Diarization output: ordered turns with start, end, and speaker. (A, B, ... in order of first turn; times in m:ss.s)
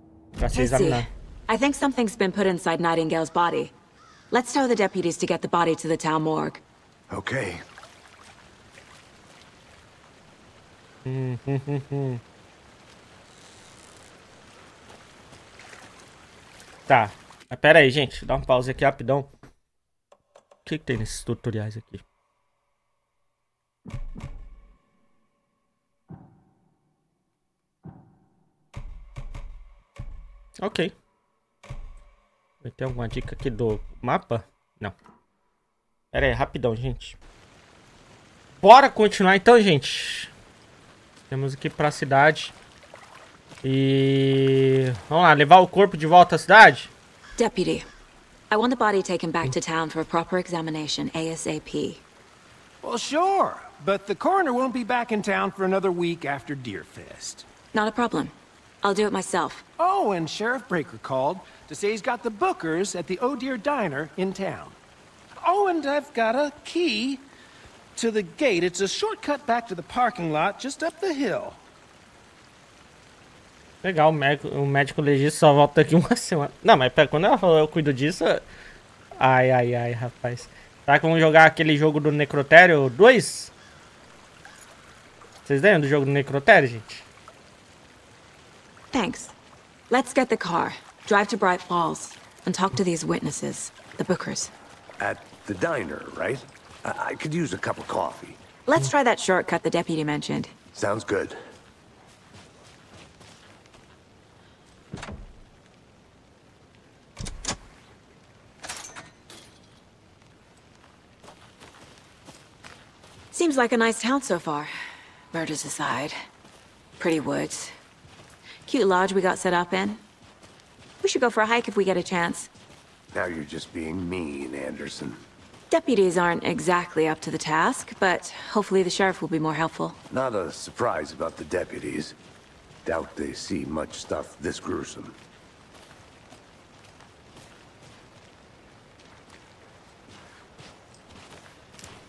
0:00.4-0:01.1 A
0:00.5-0:03.7 B
0:04.3-0:06.6 B
0:07.1-0:07.6 C
0:11.0-0:12.2 A
0:16.9-0:19.3 A
0:20.6-0:22.0 A
0:30.6-0:30.9 A
0:32.6-0:35.0 A
0:36.1-0:37.2 A
0:38.6-0:40.3 A
0:41.3-0:42.5 A
0:43.6-0:46.9 A
0:47.4-0:47.9 B
0:48.5-0:52.0 B
0:52.8-0:57.5 D
0:57.7-0:59.6 B
0:59.8-1:04.8 D
1:05.4-1:07.2 D
1:08.0-1:11.6 D
1:13.8-1:18.4 A
1:19.2-1:23.5 A
1:25.4-1:27.0 A
1:28.9-1:29.3 B
1:29.9-1:34.5 B
1:35.0-1:38.4 C
1:38.7-1:40.5 B
1:40.7-1:41.4 C
1:53.3-1:54.7 B
1:55.3-1:56.2 B
1:57.0-1:57.7 B
1:58.7-2:00.0 B
2:01.0-2:02.5 B
2:03.1-2:05.2 C
2:05.7-2:10.0 B
2:10.1-2:12.2 C
2:12.8-2:15.2 C